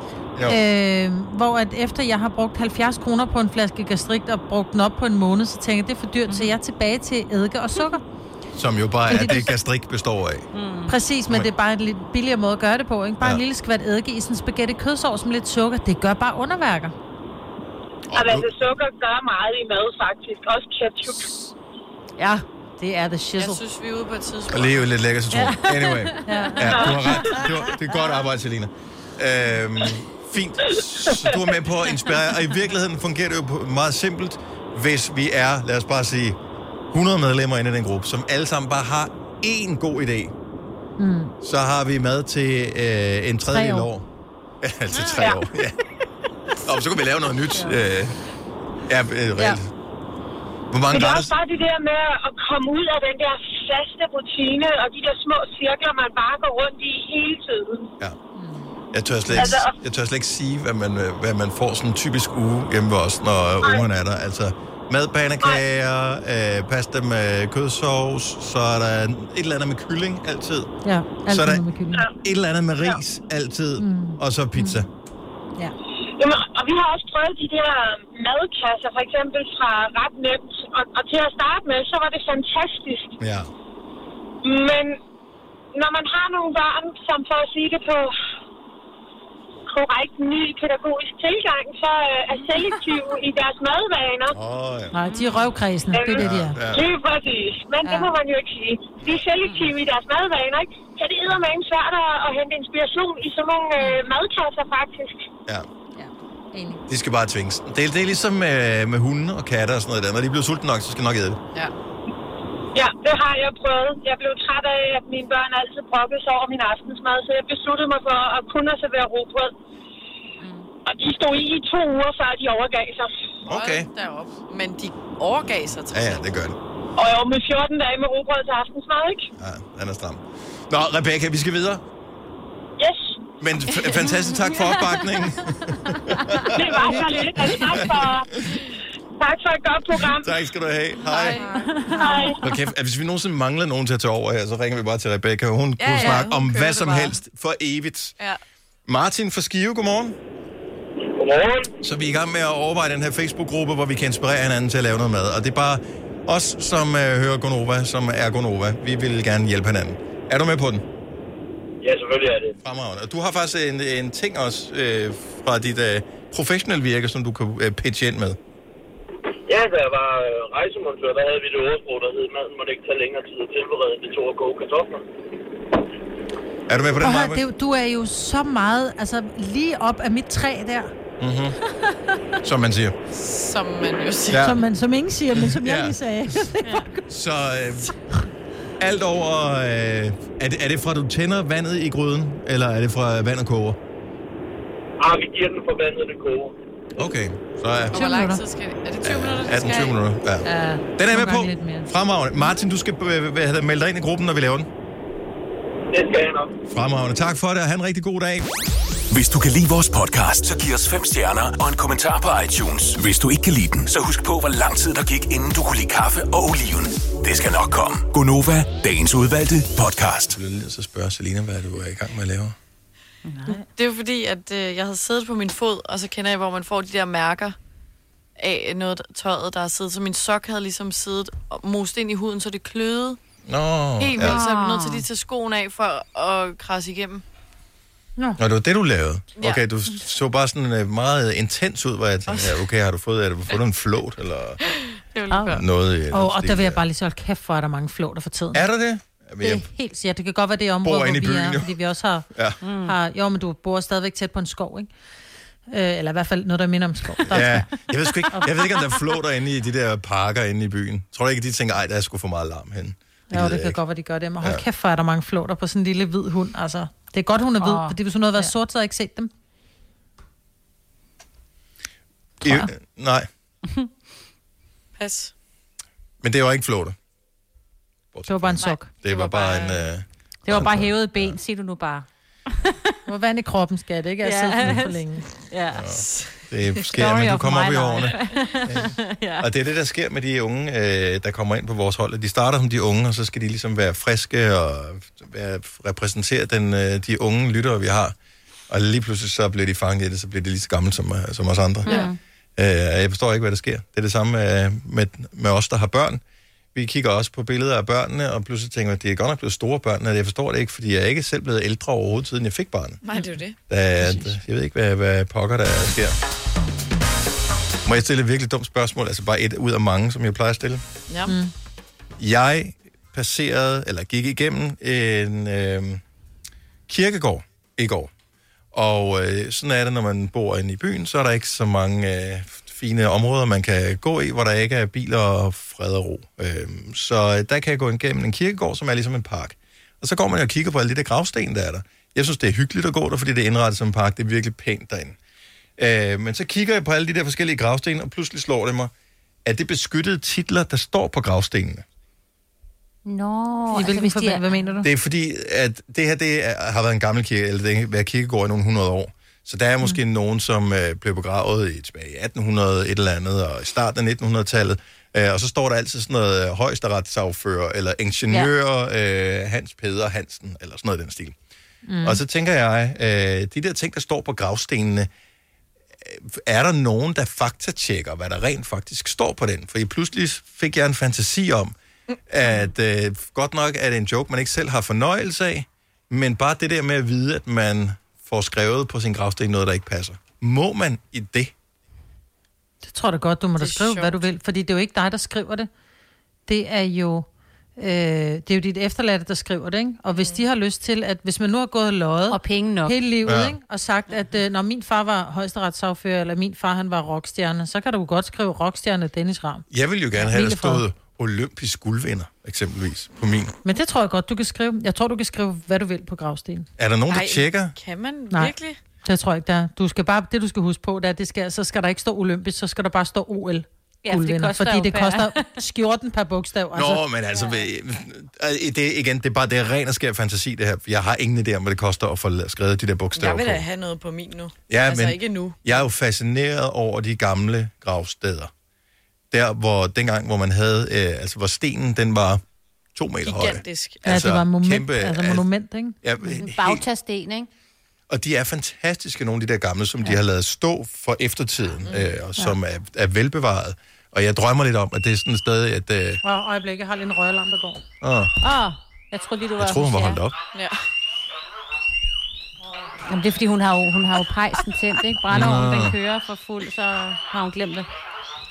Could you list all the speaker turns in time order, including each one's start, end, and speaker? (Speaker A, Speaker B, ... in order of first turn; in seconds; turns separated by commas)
Speaker A: 0.5-8.0, Speaker B: 6.3-6.6, Speaker C: 8.5-10.5, Speaker A: 9.1-9.5, Speaker B: 10.5-11.0, Speaker A: 10.9-16.9, Speaker C: 18.1-18.5, Speaker D: 18.1-21.3, Speaker A: 22.2-23.6, Speaker E: 23.4-24.8, Speaker C: 24.5-36.4, Speaker B: 25.4-27.7, Speaker A: 26.3-27.5, Speaker C: 36.9-40.3, Speaker A: 41.0-41.3, Speaker C: 41.4-44.1, Speaker A: 43.5-43.9, Speaker C: 44.6-45.8, Speaker B: 44.9-45.4, Speaker C: 46.6-48.2, Speaker C: 48.9-49.7, Speaker C: 50.7-51.3, Speaker D: 50.9-57.9, Speaker A: 58.4-58.7, Speaker C: 58.9-70.7, Speaker D: 59.4-59.7, Speaker A: 70.8-72.1, Speaker C: 71.3-71.6, Speaker C: 72.2-74.9, Speaker A: 73.8-74.9, Speaker D: 76.2-83.2, Speaker C: 83.2-83.5, Speaker D: 84.4-85.0, Speaker D: 85.7-88.2, Speaker D: 89.7-94.4, Speaker C: 94.3-95.0, Speaker A: 94.9-96.6, Speaker B: 95.0-95.5, Speaker D: 95.9-105.2, Speaker C: 96.2-96.9, Speaker A: 106.0-106.8, Speaker C: 106.9-111.4, Speaker D: 112.7-119.5, Speaker D: 120.9-123.2, Speaker C: 123.5-123.9, Speaker E: 123.5-126.2, Speaker C: 125.9-126.6, Speaker D: 127.0-129.3, Speaker C: 129.4-131.8, Speaker D: 132.8-133.2, Speaker C: 133.4-138.6, Speaker B: 133.9-135.3, Speaker B: 135.9-136.4, Speaker D: 136.5-138.3, Speaker D: 139.2-140.4, Speaker C: 140.1-141.4, Speaker E: 141.1-141.5, Speaker B: 141.4-142.3, Speaker A: 141.4-142.3, Speaker D: 142.0-142.3, Speaker C: 142.4-148.2, Speaker E: 145.8-147.2, Speaker C: 148.9-150.2, Speaker F: 151.2-151.7, Speaker C: 151.8-160.8, Speaker F: 161.8-162.6, Speaker C: 162.6-168.4, Speaker F: 169.5-175.0, Speaker C: 176.7-177.4, Speaker A: 177.0-180.9, Speaker C: 181.2-181.6, Speaker C: 182.4-182.9, Speaker E: 183.1-184.6, Speaker C: 184.3-184.6, Speaker A: 184.3-187.0, Speaker C: 185.3-186.4, Speaker C: 187.1-187.9, Speaker C: 188.8-193.8, Speaker F: 195.0-196.5, Speaker C: 197.0-198.0, Speaker E: 197.9-200.0, Speaker A: 197.9-198.4, Speaker C: 199.0-200.5, Speaker A: 200.4-201.9, Speaker C: 201.0-204.7, Speaker F: 205.9-206.5, Speaker C: 206.7-208.5, Speaker G: 209.1-220.4, Speaker C: 220.3-222.6, Speaker B: 223.3-223.6, Speaker E: 223.5-227.6, Speaker E: 228.4-233.2, Speaker C: 233.5-234.4, Speaker E: 234.0-237.2, Speaker B: 234.2-235.0, Speaker C: 238.4-244.6, Speaker E: 239.4-239.6, Speaker E: 242.3-242.6, Speaker E: 244.7-245.7, Speaker C: 245.5-246.8, Speaker A: 246.1-248.6, Speaker C: 248.5-249.7, Speaker A: 249.4-252.3, Speaker C: 250.8-251.7, Speaker C: 252.3-252.6, Speaker B: 252.6-253.0, Speaker A: 252.8-254.9, Speaker A: 255.7-257.7, Speaker C: 257.3-263.8, Speaker A: 258.3-258.7, Speaker A: 263.3-269.3, Speaker B: 267.6-268.5, Speaker C: 272.4-273.3, Speaker E: 275.0-275.3, Speaker C: 276.2-276.9, Speaker C: 278.1-281.4, Speaker A: 278.3-278.9, Speaker E: 279.1-279.9, Speaker B: 280.4-282.1, Speaker A: 283.1-285.2, Speaker B: 284.2-285.9, Speaker C: 285.8-298.1, Speaker E: 286.0-286.8, Speaker B: 286.9-289.5, Speaker C: 298.7-306.2, Speaker B: 301.9-302.2, Speaker C: 306.8-313.0, Speaker E: 313.0-313.6, Speaker C: 313.7-316.2, Speaker C: 317.9-320.8, Speaker E: 321.1-321.4, Speaker C: 322.2-326.0, Speaker C: 326.9-328.1, Speaker C: 328.7-345.2, Speaker C: 345.8-348.9, Speaker C: 349.4-351.8, Speaker B: 353.1-354.7, Speaker A: 353.7-354.9, Speaker C: 354.8-371.4, Speaker A: 371.9-372.2, Speaker C: 372.0-375.1, Speaker C: 376.0-381.8, Speaker C: 382.3-391.5, Speaker A: 392.8-395.7, Speaker E: 393.6-394.3, Speaker A: 396.5-397.3, Speaker A: 397.8-410.8, Speaker E: 400.2-400.4, Speaker B: 402.3-403.0, Speaker C: 403.2-403.6, Speaker C: 409.7-413.6, Speaker A: 413.6-416.7, Speaker C: 416.8-417.7, Speaker E: 417.1-418.8, Speaker A: 418.3-427.0, Speaker B: 424.0-425.6, Speaker C: 426.7-433.6, Speaker E: 433.2-435.9, Speaker C: 434.7-438.5, Speaker C: 439.3-442.4, Speaker C: 442.9-445.5, Speaker E: 443.2-444.2, Speaker A: 444.1-446.0, Speaker C: 446.0-446.8, Speaker B: 446.2-447.5, Speaker C: 448.1-456.2, Speaker E: 451.9-452.1, Speaker A: 456.2-457.8, Speaker C: 458.0-458.4, Speaker B: 458.4-460.2, Speaker C: 459.6-460.4, Speaker E: 460.5-460.8, Speaker B: 463.1-467.9, Speaker C: 465.3-466.0